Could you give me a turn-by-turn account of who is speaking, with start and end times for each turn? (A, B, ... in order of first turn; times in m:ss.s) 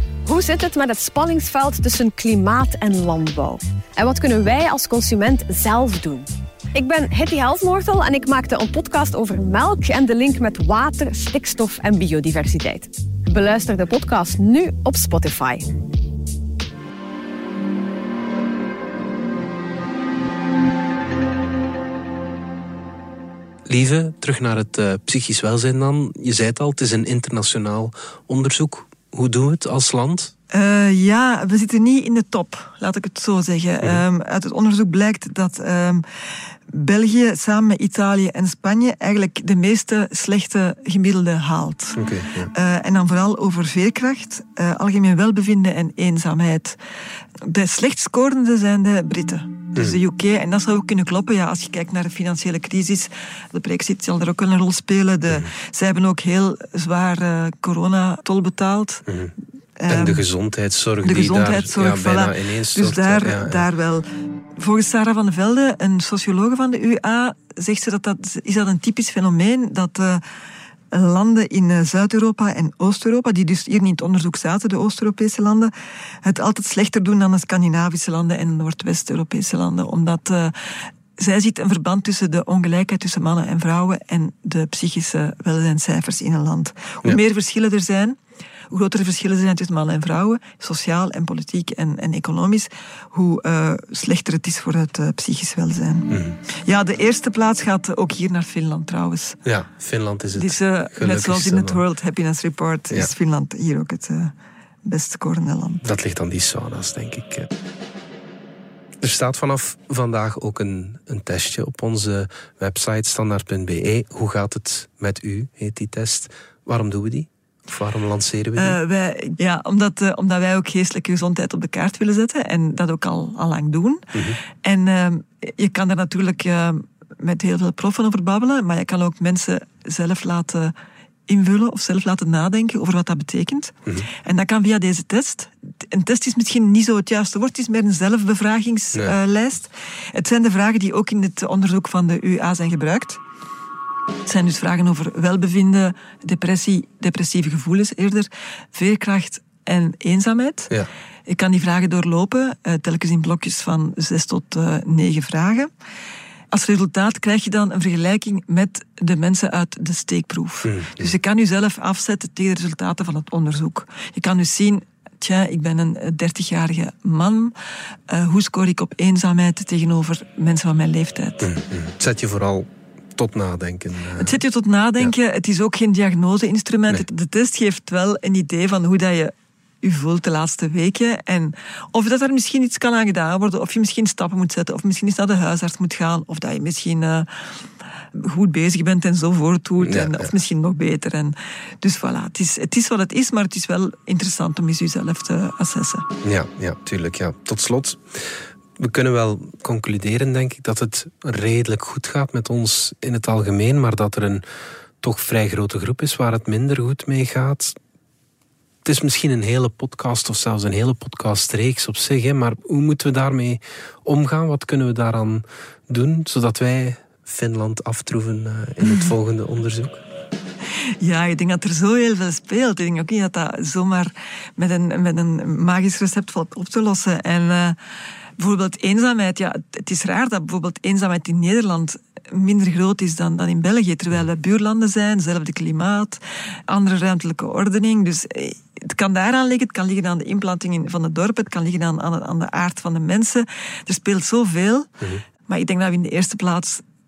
0:00.3-0:15.7 A
0:23.7-0:30.3 B
0:30.5-0:36.0 C
0:36.7-0:46.8 C
0:42.0-0:42.5 B
0:47.4-0:59.0 C
0:49.8-0:50.0 B
0:59.1-0:59.3 B
0:59.8-1:00.2 C
0:59.9-1:03.7 B
1:01.0-1:04.0 C
1:04.6-1:10.2 C
1:10.9-1:15.7 C
1:16.2-1:20.6 C
1:21.2-1:28.2 C
1:28.7-1:39.4 C
1:36.1-1:36.4 B
1:39.5-1:41.8 B
1:40.4-1:44.3 C
1:44.9-1:45.8 C
1:45.8-1:47.5 B
1:49.0-1:58.8 B
1:58.6-2:04.1 C
2:04.1-2:04.4 B
2:04.6-2:10.7 C
2:11.3-2:23.2 C
2:24.2-2:30.7 C
2:31.3-2:35.7 C
2:36.5-2:47.5 C
2:40.6-2:41.1 B
2:48.1-2:51.5 C
2:51.4-2:54.4 B
2:54.2-3:07.3 C
3:08.2-3:16.1 C
3:09.8-3:10.3 B
3:16.2-3:24.4 B
3:25.0-3:27.8 B
3:28.8-3:40.0 B
3:38.8-3:39.1 C
3:41.0-3:47.8 C
3:48.4-4:04.9 C
4:05.5-4:06.8 C